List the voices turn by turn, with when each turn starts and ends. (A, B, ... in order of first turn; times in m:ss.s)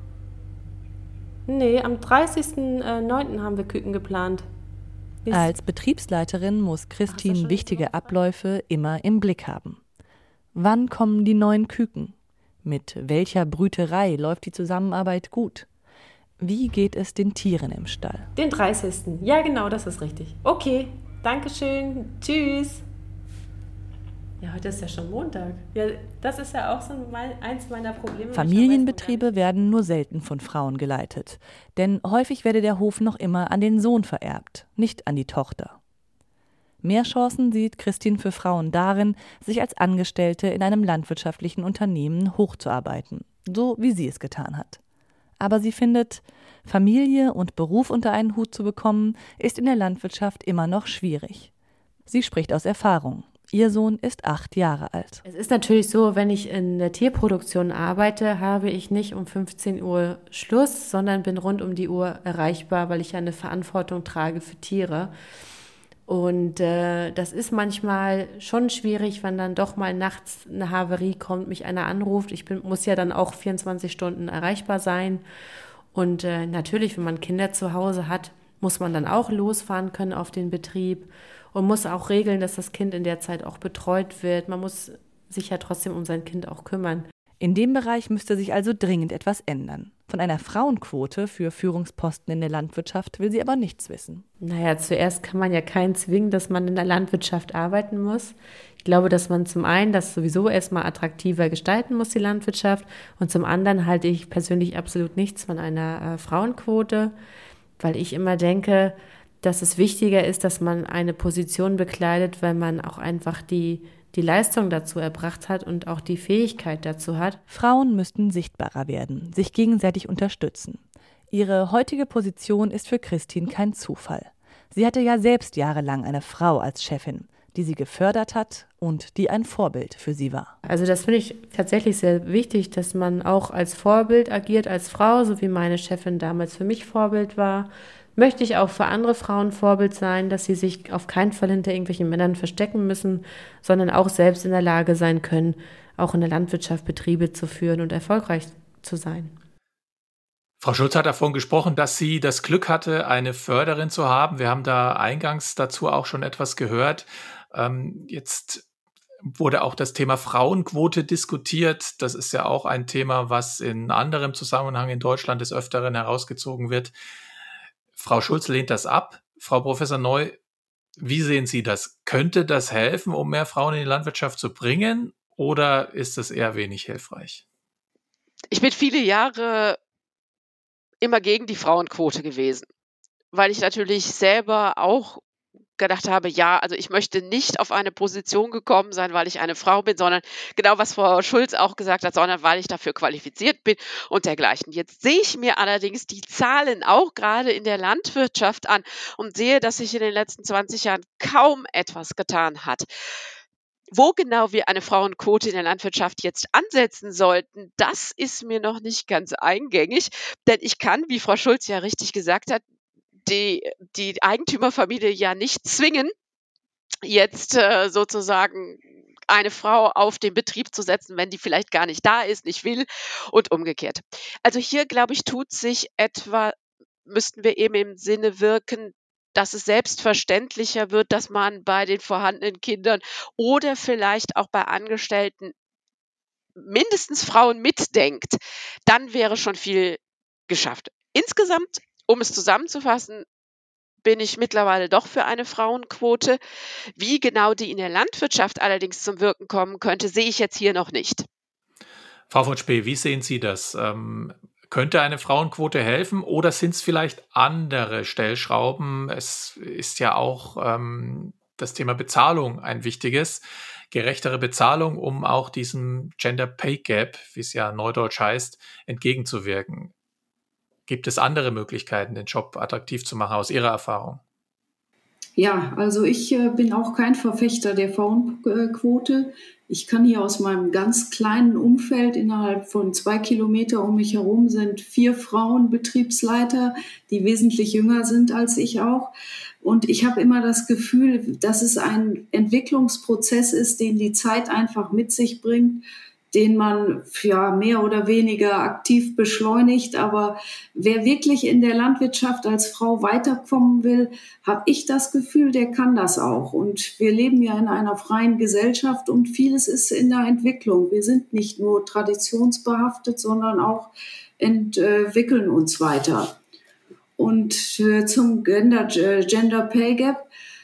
0:01.5-0:04.4 A
0:05.2-0:05.5 A
0:05.3-0:09.8 B
0:07.1-0:08.1 A
0:10.5-0:15.7 B
0:16.4-0:18.3 B
0:18.4-0:22.8 A
0:24.4-0:29.4 A
0:28.3-0:35.8 B
0:36.8-0:44.8 B
0:45.4-0:51.5 B
0:52.1-0:55.2 B
0:55.2-1:05.1 A
1:06.1-1:15.2 A
1:15.9-1:27.1 A
1:27.4-1:34.2 B
1:34.4-1:47.1 A
1:47.8-1:57.4 A
1:57.5-2:10.5 B
2:10.6-2:29.3 A
2:30.6-2:38.6 C
2:39.2-2:46.9 C
2:48.0-2:50.4 C
2:51.0-2:57.4 C
2:58.5-2:59.8 D
3:01.0-3:02.7 D
3:03.3-3:05.2 D
3:05.8-3:22.9 D
3:23.9-3:32.6 D
3:33.2-3:36.1 D
3:37.0-3:46.5 D
3:47.0-3:55.5 D
3:56.6-4:03.2 D
4:04.0-4:06.4 D
4:07.0-4:11.2 D
4:12.3-4:29.9 C
4:30.9-4:34.2 C
4:35.4-5:16.4 E
5:17.2-5:20.2 E